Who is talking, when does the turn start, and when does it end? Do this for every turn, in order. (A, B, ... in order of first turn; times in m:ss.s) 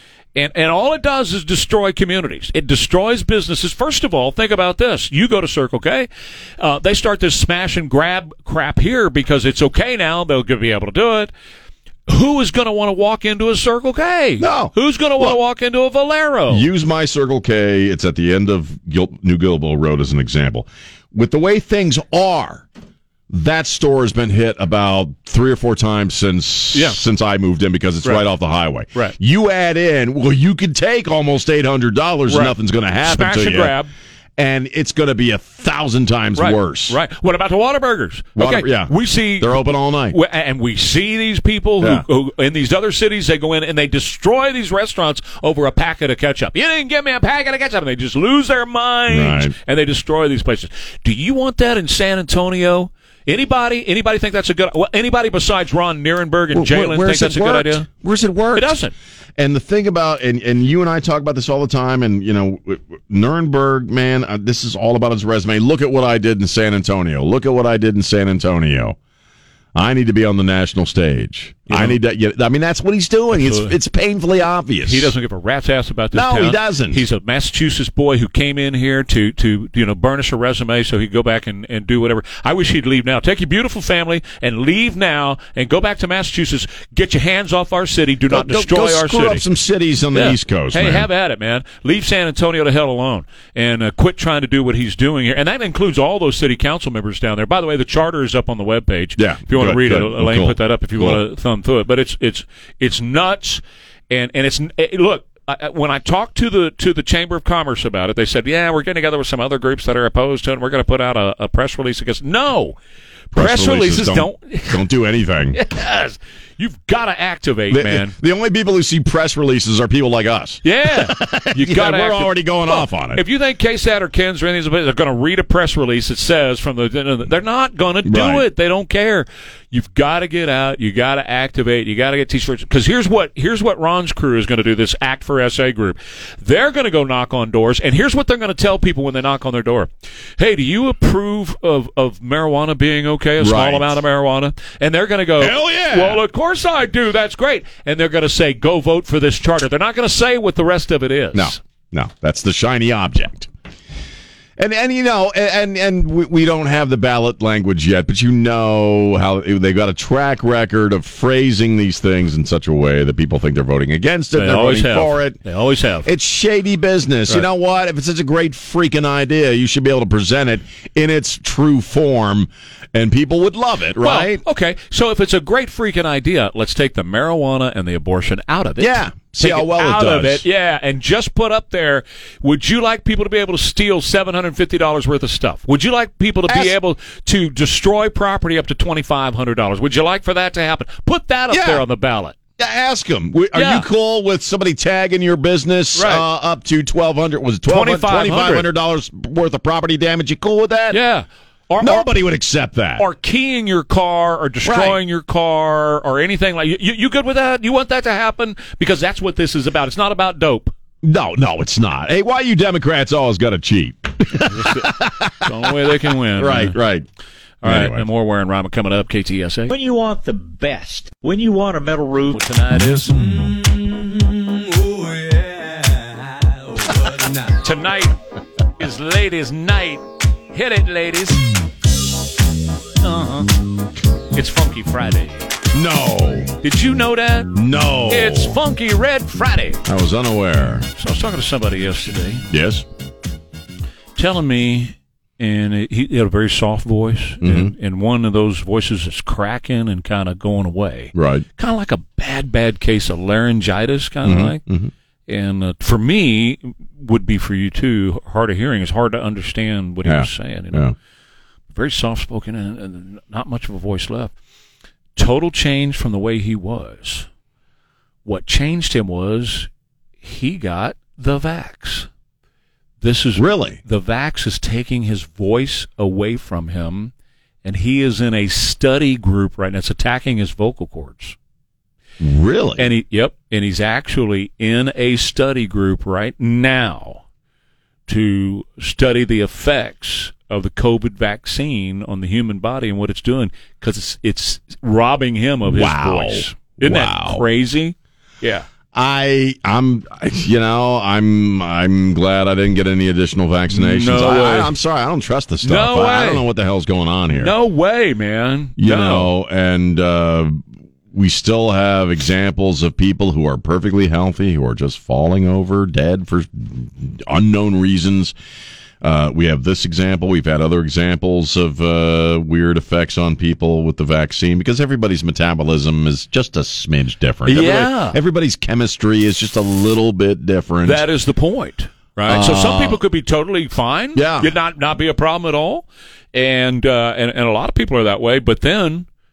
0:00.3-0:06.1 A
0:06.6-0:11.3 A
0:12.1-0:16.7 A
0:14.4-0:15.4 B
0:16.5-0:22.6 B
0:23.3-0:33.8 B
0:26.7-0:27.0 A
0:32.3-0:33.9 A
0:34.4-0:37.0 B
0:36.4-0:57.9 A
0:38.4-0:40.2 B
0:41.8-0:42.0 B
0:49.1-0:49.5 B
0:56.5-0:58.8 B
0:58.5-0:58.9 A
0:59.4-1:09.0 B
1:09.7-1:15.1 B
1:11.7-1:12.0 A
1:13.3-1:13.8 A
1:14.8-1:29.4 A
1:16.1-1:17.0 B
1:28.3-1:31.1 B
1:30.1-1:52.8 A
1:39.2-1:41.2 B
1:53.3-1:54.9 A
1:53.3-1:55.6 B
1:55.5-1:58.1 A
1:57.7-2:03.2 B
2:00.6-2:31.6 A
2:08.0-2:08.4 B
2:23.4-2:24.0 B
2:25.4-2:26.2 B
2:31.3-2:33.5 B
2:34.6-2:45.4 B
2:44.3-2:46.1 A
2:46.0-2:54.4 B
2:54.0-3:12.4 A
2:58.8-3:00.4 B
3:06.5-3:06.7 B
3:11.5-3:11.8 B
3:12.6-3:21.0 B
3:13.5-3:13.8 A
3:15.9-3:16.2 A
3:17.7-3:18.7 A
3:20.9-3:22.1 A
3:21.8-3:23.0 B
3:23.0-3:30.7 A
3:24.6-3:25.0 B
3:31.0-3:37.1 B
3:34.4-3:36.8 A
3:37.6-3:39.7 A
3:37.6-3:38.0 B
3:39.7-3:42.4 C
3:42.3-3:43.3 A
3:43.1-3:46.3 C
3:46.8-3:47.5 C
3:47.6-3:48.2 A
3:48.8-3:51.4 A
3:53.0-3:53.5 A
3:54.3-3:55.5 A
3:55.7-3:56.6 B
3:56.6-3:57.6 A
3:57.5-3:58.6 B
3:58.1-3:59.8 A
3:59.8-4:00.9 B
4:01.0-4:02.4 A
4:02.5-4:02.8 B
4:04.2-4:14.6 A
4:07.4-4:07.7 B
4:11.1-4:11.4 B
4:14.2-4:14.9 B
4:15.3-4:20.9 A
4:20.0-4:20.9 B
4:21.7-4:24.3 A
4:25.2-4:27.3 A
4:28.2-4:29.7 A
4:30.2-4:32.1 A
4:33.0-4:37.1 A
4:33.4-4:33.8 B
4:37.6-4:41.4 A
4:42.2-4:42.9 B
4:42.8-4:47.2 A
4:48.1-4:58.6 A
4:55.6-4:57.4 B
4:58.9-5:07.5 B
5:03.7-5:04.7 A
5:05.6-5:06.4 A
5:07.3-5:09.3 A
5:08.8-5:18.3 B
5:19.0-5:31.0 B
5:27.4-5:28.2 A
5:30.8-5:39.0 A
5:32.3-5:33.0 B
5:34.1-5:34.5 B